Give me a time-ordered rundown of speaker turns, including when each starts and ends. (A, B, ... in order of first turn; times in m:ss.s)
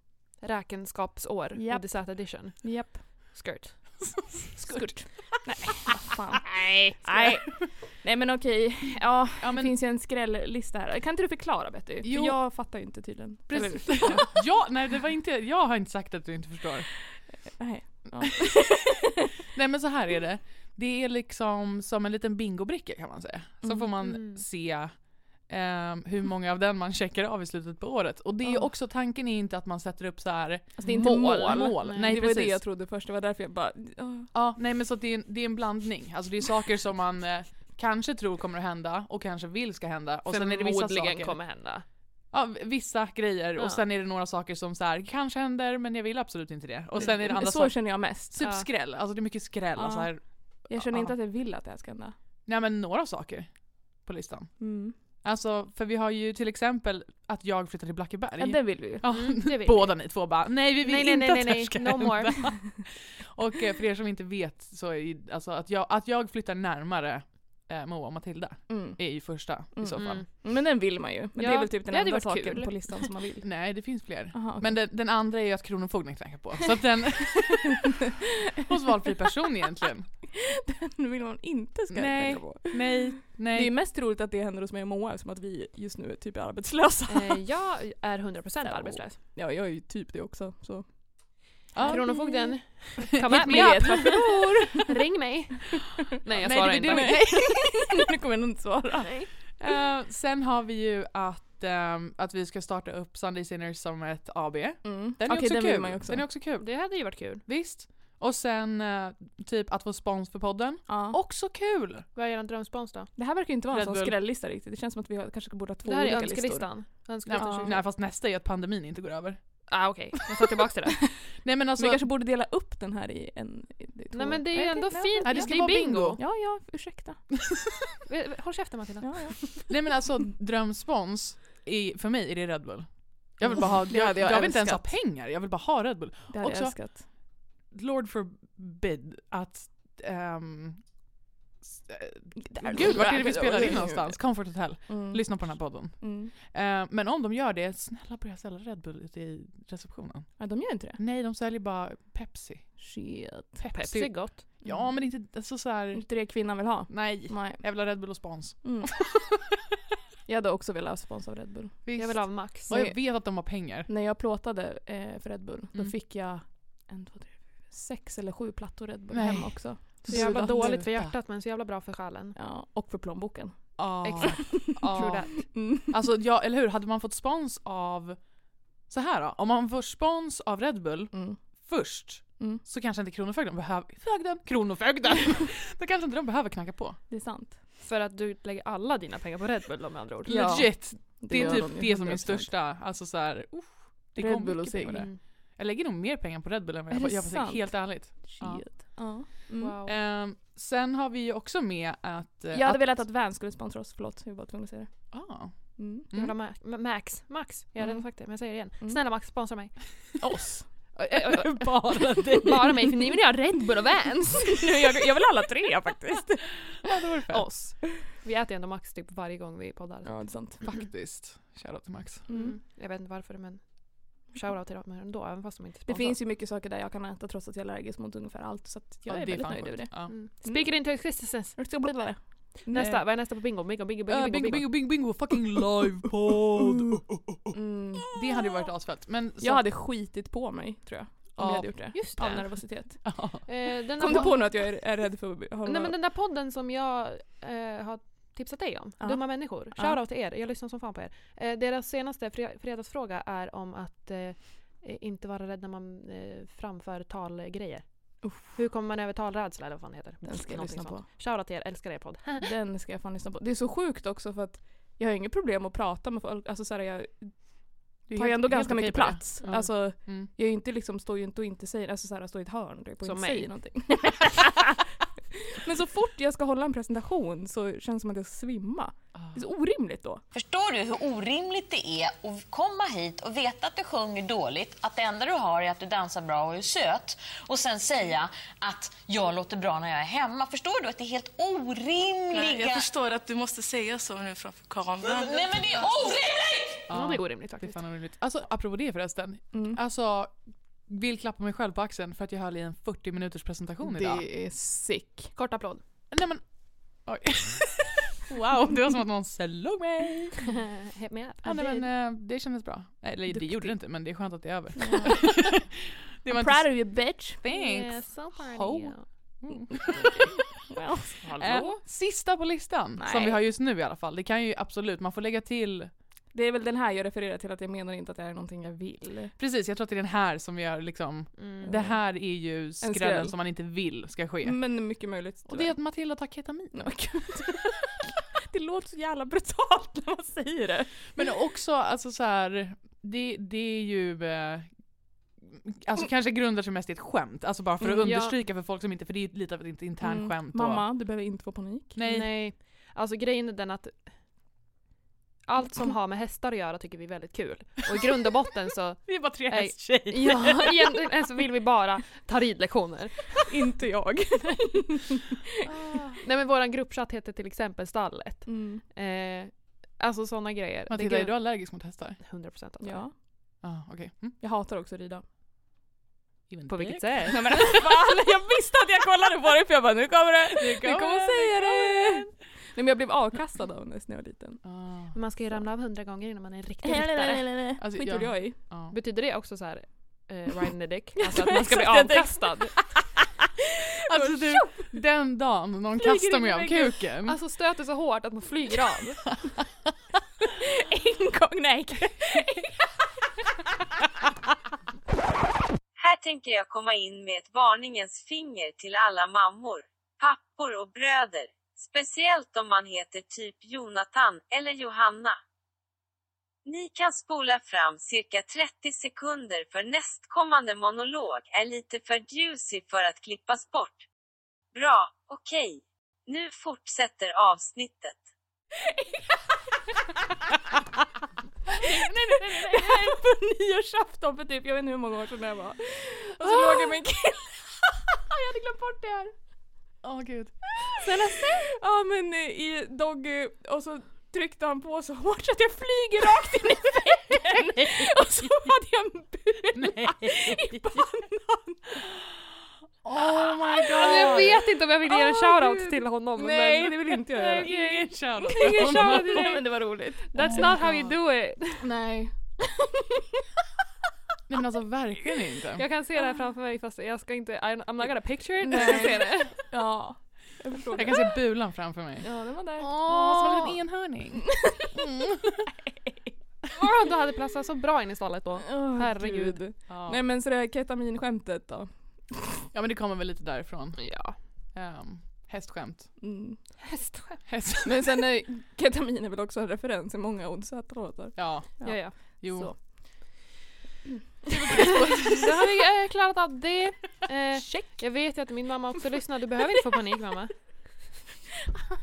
0:00.3-0:04.1 A
0:01.6-0:03.0 B
0:04.3-0:04.9 C
0:04.6-0:14.3 B
0:06.4-0:07.2 A
0:09.4-0:09.7 C
0:12.0-0:12.4 C
0:13.5-0:16.9 C
0:17.1-0:19.0 B
0:19.5-0:24.9 C
0:23.6-0:23.9 B
0:24.0-0:24.4 A
0:25.5-0:32.6 C
0:30.8-0:34.3 B
0:30.8-0:32.2 A
0:34.3-0:41.4 C
0:40.3-0:41.8 A
0:42.3-0:51.1 C
0:43.6-0:43.8 A
0:47.0-0:48.5 B
0:48.4-0:48.7 A
0:49.8-0:52.1 B
0:52.4-1:10.2 C
0:54.6-0:55.0 B
0:58.4-0:59.0 B
0:59.0-1:00.3 A
1:00.8-1:02.6 A
1:08.7-1:13.4 B
1:10.0-1:10.3 A
1:11.4-1:13.1 A
1:13.4-1:17.8 C
1:14.3-1:14.8 B
1:18.6-1:20.1 C
1:20.4-1:27.4 B
1:21.9-1:23.7 C
1:27.1-1:29.2 A
1:28.6-1:34.8 B
1:31.7-1:32.2 C
1:31.8-1:37.4 A
1:33.2-1:34.3 C
1:36.3-1:37.9 C
1:36.9-1:39.3 B
1:39.6-1:52.0 C
1:44.8-1:46.2 B
1:46.6-1:47.4 A
1:50.9-1:51.2 B
1:52.1-1:53.1 A
1:53.2-1:56.7 B
1:53.7-1:54.2 C
1:55.8-1:57.8 A
1:57.2-1:59.4 C
1:57.4-1:57.7 B
1:59.7-2:01.0 A
2:01.4-2:02.0 C
2:01.8-2:07.2 B
2:04.1-2:06.2 A
2:05.2-2:06.2 C
2:08.1-2:09.6 A
2:09.0-2:09.6 B
2:09.7-2:16.8 C
2:13.4-2:14.9 B
2:16.3-2:17.0 B
2:17.7-2:20.9 C
2:21.6-2:32.7 C
2:22.6-2:26.3 B
2:30.4-2:31.0 B
2:32.8-2:33.6 B
2:33.6-2:39.3 C
2:33.7-2:34.5 A
2:34.6-2:34.9 B
2:35.9-2:37.6 B
2:38.6-2:38.9 B
2:40.3-2:41.9 B
2:41.8-2:43.9 C
2:42.0-2:42.7 A
2:42.7-2:43.2 B
2:43.9-2:50.8 B
2:49.1-2:51.1 C
2:50.1-2:52.4 A
2:52.4-2:55.9 B
2:53.8-2:58.2 C
2:54.0-2:55.5 A
2:58.9-3:07.0 C
3:01.1-3:01.4 B
3:07.1-3:07.6 B
3:07.8-3:10.6 A
3:10.3-3:12.5 B
3:10.3-3:18.6 C
3:11.3-3:11.6 A
3:14.2-3:15.1 B
3:16.9-3:19.7 B
3:19.6-3:20.0 A
3:19.8-3:23.0 C
3:22.5-3:24.9 B
3:25.1-3:26.3 C
3:25.8-3:26.1 B
3:26.1-3:30.2 A
3:30.2-3:30.7 B
3:31.0-3:34.6 A
3:31.1-3:32.8 C
3:34.5-3:36.5 B
3:36.8-3:37.5 C
3:37.3-3:40.8 A
3:40.0-3:40.6 B
3:40.6-3:42.2 C
3:42.3-3:42.6 B
3:42.3-3:46.2 A
3:45.9-3:50.9 B
3:49.0-3:50.1 C
3:50.1-3:52.0 A
3:51.5-3:52.9 B
3:52.7-3:55.1 A
3:52.8-3:53.0 C
3:54.1-3:57.4 C
3:57.5-3:58.1 B
3:58.1-3:59.6 C
3:59.4-4:03.1 B
4:01.4-4:02.0 C
4:01.9-4:04.8 A
4:03.0-4:03.4 C
4:04.0-4:05.9 B
4:05.6-4:22.5 A
4:09.0-4:10.0 B
4:18.2-4:18.5 B
4:20.2-4:21.1 B
4:22.4-4:34.8 B
4:28.1-4:30.3 C
4:33.0-4:33.5 A
4:35.4-4:40.2 B
4:40.3-4:52.8 D
4:52.3-4:55.8 E
4:55.0-4:56.8 D
4:56.9-5:04.2 C
4:56.9-4:57.8 A
4:59.5-4:59.8 B
5:03.8-5:05.3 B
5:05.3-5:05.8 A
5:06.1-5:06.4 C
5:07.0-5:10.4 C
5:10.5-5:11.9 A
5:11.4-5:20.3 C
5:13.3-5:13.7 B
5:14.8-5:15.3 B
5:16.3-5:17.4 B
5:17.5-5:19.1 A
5:20.7-5:21.2 B
5:21.2-5:21.8 A
5:21.4-5:25.9 C
5:23.0-5:23.4 B
5:26.3-5:29.3 B
5:29.4-5:34.6 C
5:31.4-5:32.0 A
5:32.8-5:33.4 B
5:34.4-5:35.9 B
5:35.4-5:37.1 C
5:36.7-5:41.2 B
5:41.1-5:44.7 C
5:45.4-5:50.9 C
5:47.8-5:48.4 A
5:50.0-5:52.0 B
5:52.0-5:52.3 C
5:52.0-5:54.2 A
5:55.4-6:03.4 A
5:59.1-6:00.8 C
6:03.5-6:05.3 B
6:05.8-6:06.1 C
6:05.9-6:13.1 A
6:08.5-6:08.8 B
6:10.9-6:12.2 C
6:12.8-6:13.1 B
6:13.6-6:14.4 C
6:14.4-6:15.2 B
6:16.5-6:17.3 C
6:16.7-6:17.6 A
6:17.3-6:24.6 B
6:20.6-6:22.3 C
6:24.6-6:25.2 C
6:25.1-6:27.5 A
6:26.8-6:28.6 B
6:27.8-6:28.9 C
6:28.9-6:32.8 A
6:31.2-6:32.7 B
6:34.1-6:37.4 C
6:34.1-6:35.0 B
6:36.0-6:37.0 B
6:37.2-6:39.2 A
6:40.4-6:42.8 B
6:46.0-6:55.4 F
6:56.6-7:04.0 F
7:04.7-7:08.2 F
7:11.8-7:13.0 A
7:11.8-7:19.3 B
7:20.0-7:20.7 C
7:21.0-7:21.6 A
7:21.8-7:32.0 B
7:29.8-7:30.8 C
7:33.0-7:34.7 C
7:33.8-7:39.6 A
7:35.1-7:37.7 B
7:36.8-7:39.6 C
7:38.4-7:40.8 B
7:40.3-7:41.8 A
7:40.4-7:41.1 C
7:41.8-7:43.2 B
7:44.5-7:45.8 C
7:45.8-7:49.6 A
7:48.6-7:51.3 B
7:48.8-7:49.0 C
7:50.9-7:55.6 C
7:52.2-7:52.9 B
7:53.0-7:53.7 A
7:54.5-7:54.9 B
7:56.7-7:59.6 A
7:58.6-8:01.9 B
7:59.9-8:00.2 C
8:02.7-8:04.1 C
8:04.0-8:04.4 A
8:04.7-8:06.1 C
8:06.2-8:06.6 B
8:06.8-8:07.4 A
8:07.5-8:08.1 C
8:07.8-8:12.8 B
8:11.4-8:12.7 C
8:11.8-8:12.4 A
8:14.5-8:15.5 C
8:14.7-8:15.2 B
8:14.8-8:20.5 A